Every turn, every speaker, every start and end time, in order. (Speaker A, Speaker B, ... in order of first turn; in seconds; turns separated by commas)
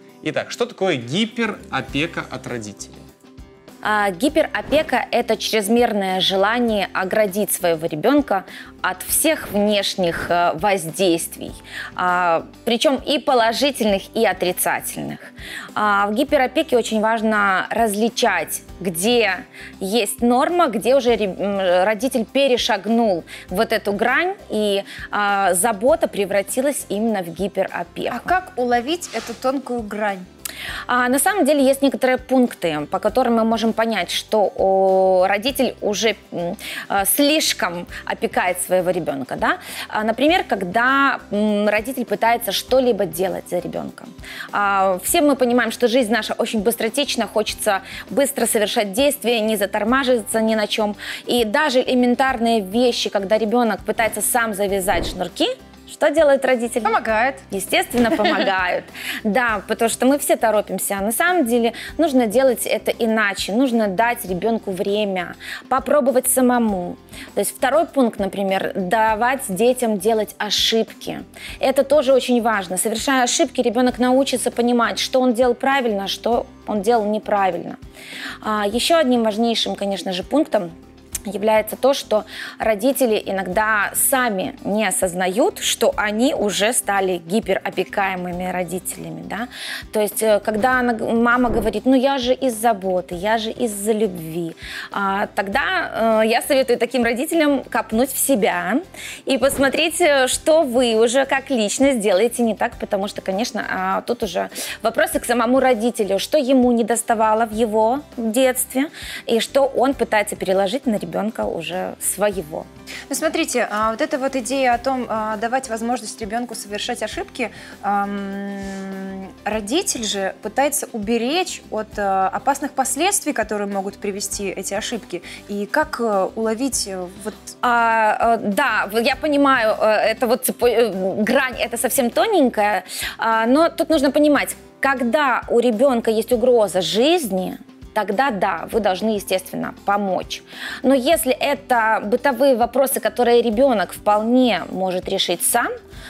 Speaker A: 0.2-3.0, Speaker B: 3.8-28.3, Speaker C: 28.1-30.2, Speaker B: 30.9-77.8, Speaker C: 56.8-57.4, Speaker B: 78.4-80.7, Speaker B: 81.2-112.7, Speaker C: 113.1-127.5, Speaker B: 127.6-145.7